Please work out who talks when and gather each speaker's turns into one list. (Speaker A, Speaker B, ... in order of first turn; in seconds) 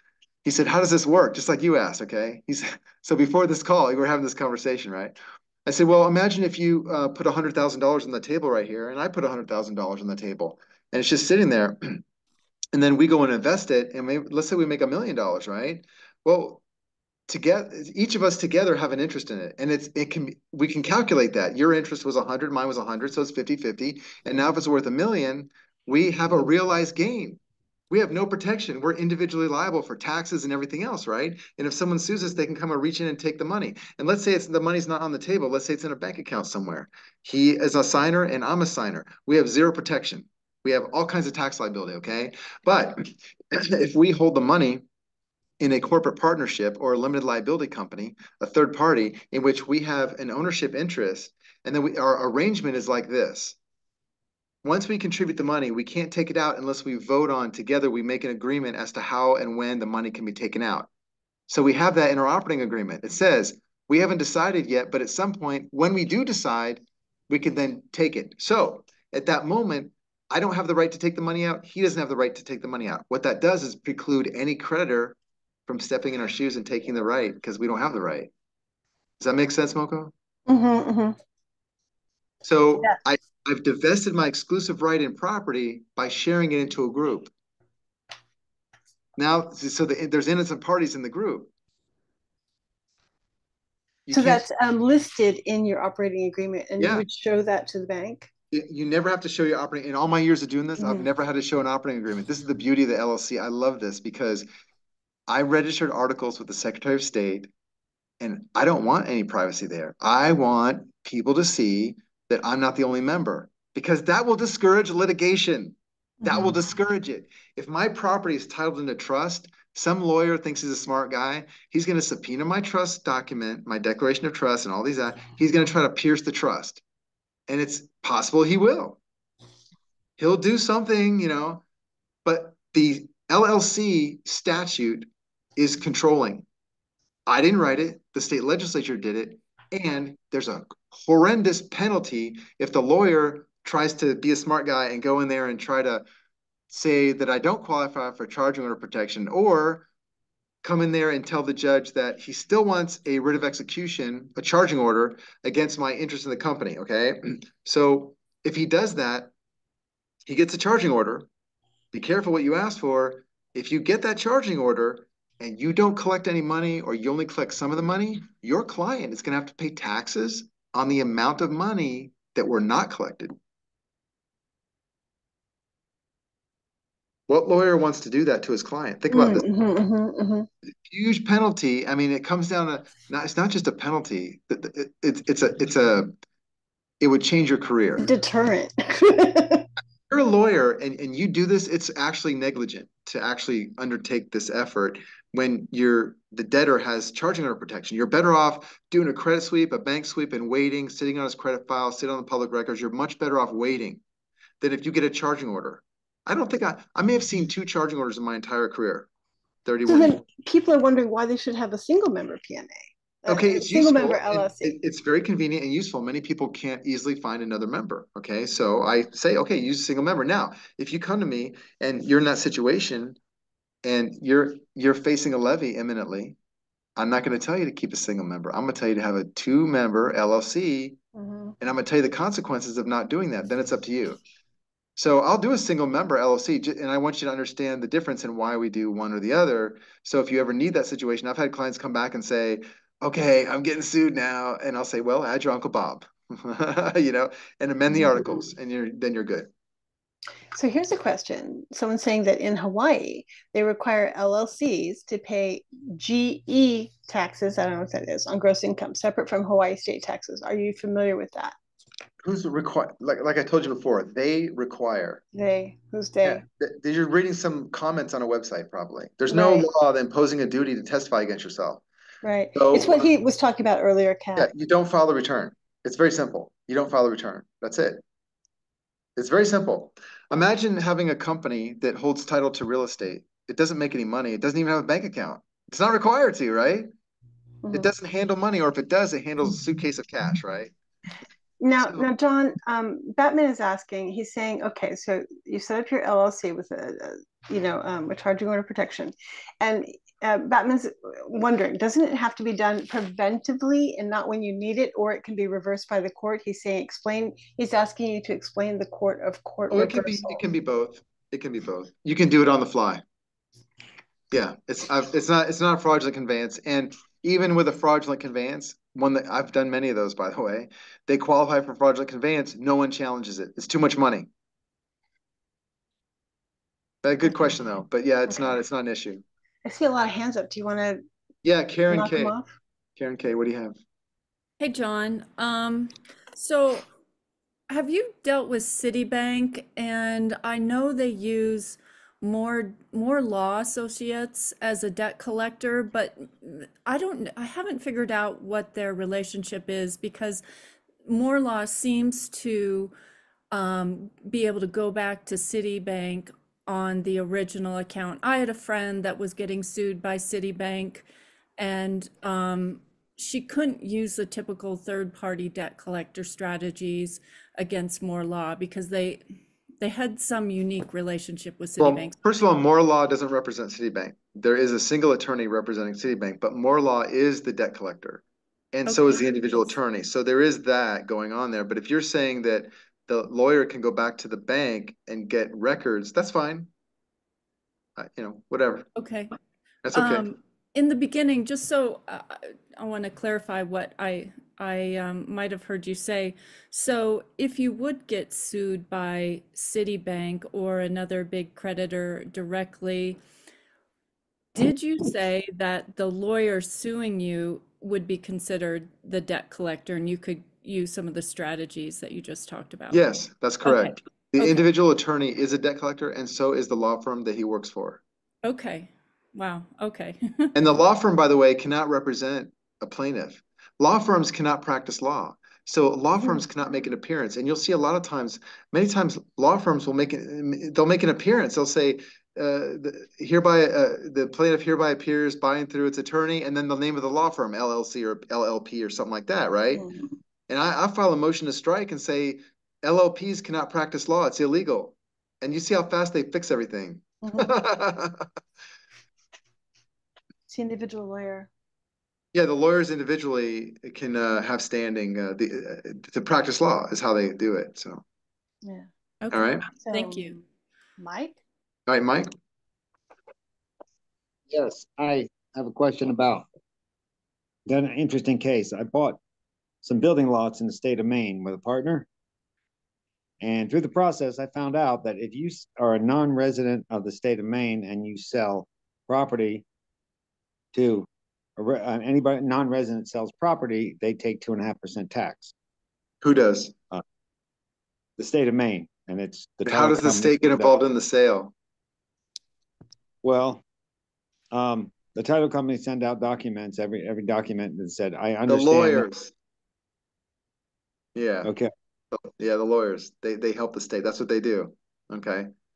Speaker A: 0.4-12.0, 12.7-16.6, 17.3-27.4, 27.9-44.8, 45.6-53.5, 54.6-60.9, 61.5-75.2, 75.7-78.3, 79.2-80.1, 82.4-87.3, 89.2-91.5, 94.1-94.4, 96.8-97.0, 98.5-104.5, 105.3-107.5, 108.2-126.8, 127.5-129.0, 130.2-131.6, 132.2-136.4, 137.3-146.0, 146.7-149.8, 150.6-159.3, 160.2-161.3, 161.9-173.3, 177.3-179.4, 180.9-186.1, 187.0-188.1, 190.1-204.0, 204.6-209.1, 209.7-210.2, 213.3-223.2, 223.8-226.3, 227.0-231.0, 231.6-234.2, 234.9-249.5, 262.2-265.2, 266.2-271.8, 272.5-273.1, 274.4-278.0, 279.1-286.9, 287.7-290.7, 291.8-292.1, 309.7-313.0, 314.3-324.3, 327.0-329.2, 331.4-332.4, 333.0-333.8, 371.8-378.2, 378.7-386.7, 387.9-388.9, 389.8-390.3, 412.9-418.0, 420.5-439.8, 440.5-448.3, 452.3-458.0, 459.3-459.6, 461.9-462.3, 486.2-486.7, 489.6-491.5, 498.5-499.3, 501.1-501.5, 502.1-505.5
Speaker B: 80.5-81.2, 94.1-98.3, 100.8-101.1, 116.2-116.5, 179.1-180.5, 188.0-189.7, 209.9-214.8, 231.2-231.5, 250.5-261.5, 265.3-266.4, 269.3-269.7, 272.2-274.5, 291.6-310.4, 329.6-331.0, 331.9-332.5, 447.2-447.5, 450.5-451.5, 459.8-460.3, 461.0-461.4
Speaker C: 334.6-336.9, 337.7-350.4, 351.0-352.9, 353.5-361.1, 361.6-369.2, 369.8-372.2, 378.9-379.7, 388.9-389.3, 389.9-403.2, 404.5-413.0, 413.6-414.7, 418.4-420.5, 459.2-460.4
Speaker D: 464.5-466.4, 467.7-469.2, 469.8-472.1, 473.4-479.6, 480.7-485.5, 488.2-490.7, 493.2-493.6, 494.5-499.1, 501.4-501.7